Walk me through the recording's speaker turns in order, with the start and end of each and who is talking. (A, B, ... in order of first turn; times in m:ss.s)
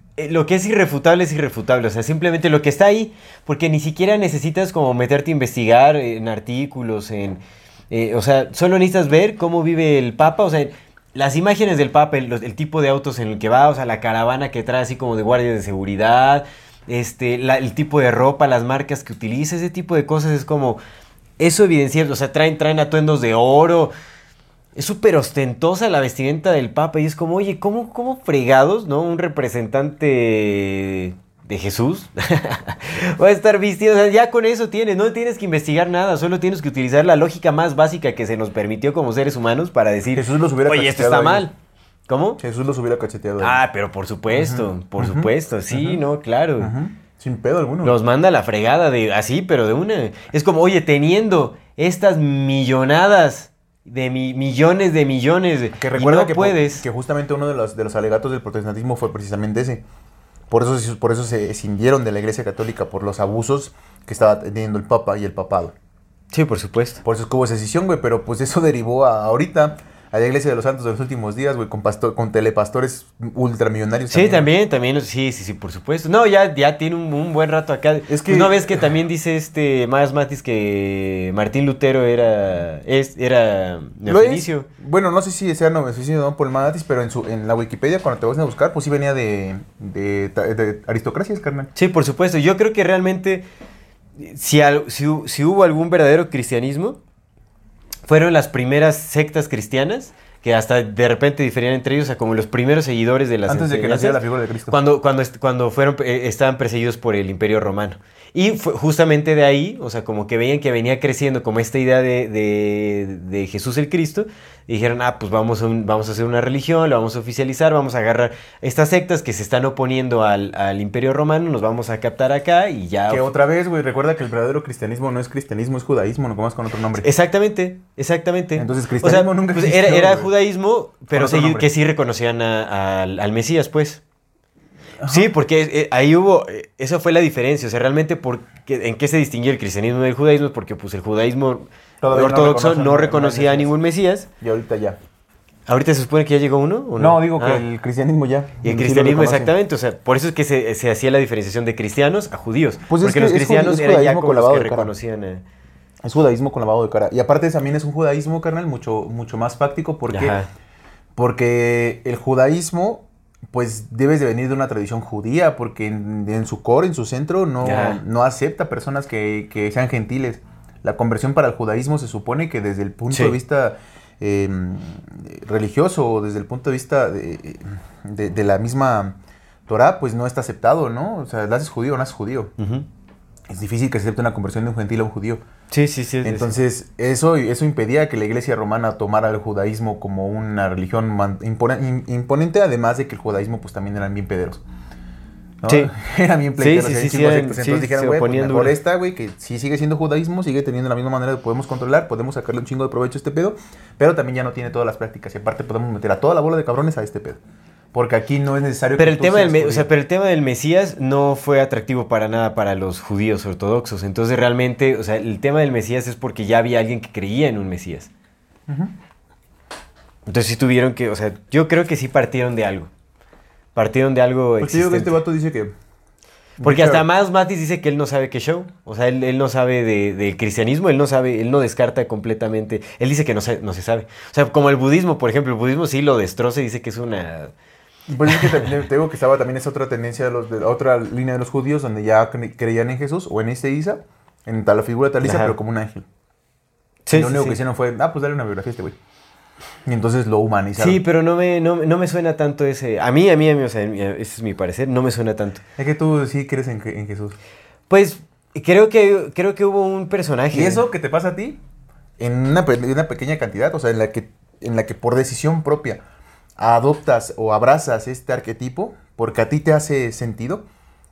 0:00.2-0:20.8 A
0:21.4-0:23.9 A
0:24.8-0:41.5 A
0:40.1-0:41.5 B
0:42.1-0:42.4 A
0:42.4-0:43.6 B
0:43.4-0:46.7 A
0:44.3-0:46.0 B
0:46.6-0:48.0 B
0:47.8-0:56.8 A
0:55.8-0:59.8 B
1:00.5-1:05.8 B
1:06.3-1:07.0 A
1:07.0-1:14.5 B
1:14.1-1:24.7 A
1:18.1-1:18.8 B
1:24.1-1:31.7 B
1:31.8-1:33.4 A
1:34.2-1:37.0 A
1:38.1-2:03.3 A
1:43.5-1:44.8 B
2:03.1-2:07.1 B
2:07.0-2:14.0 A
2:08.6-2:10.3 B
2:11.1-2:11.7 B
2:15.0-2:15.3 B
2:15.1-2:24.3 A
2:22.0-2:23.7 B
2:24.4-2:25.0 B
2:25.7-2:27.6 A
2:27.0-2:29.5 B
2:28.6-2:35.4 A
2:32.9-2:34.9 B
2:36.0-2:40.4 B
2:40.1-2:40.5 A
2:41.2-3:02.5 B
2:47.6-2:48.0 A
2:53.1-2:53.4 A
3:02.6-3:02.9 A
3:03.5-3:05.4 B
3:05.7-3:06.5 A
3:06.2-3:14.6 B
3:15.6-3:27.4 B
3:15.7-3:15.9 A
3:16.6-3:18.8 A
3:27.9-3:29.9 B
3:29.0-3:38.1 A
3:38.7-3:38.9 B
3:40.3-3:42.9 A
3:43.8-3:45.2 A
3:44.6-3:45.7 B
3:46.6-3:47.1 B
3:46.6-3:57.5 A
3:58.1-4:06.1 B
3:58.3-3:58.6 A
4:05.2-4:05.6 A
4:07.1-4:07.6 A
4:07.1-4:09.0 B
4:09.9-4:11.0 B
4:10.8-4:15.6 A
4:15.8-4:17.4 B
4:17.9-4:20.8 A
4:20.5-4:21.6 B
4:22.2-4:26.0 B
4:26.6-4:30.6 B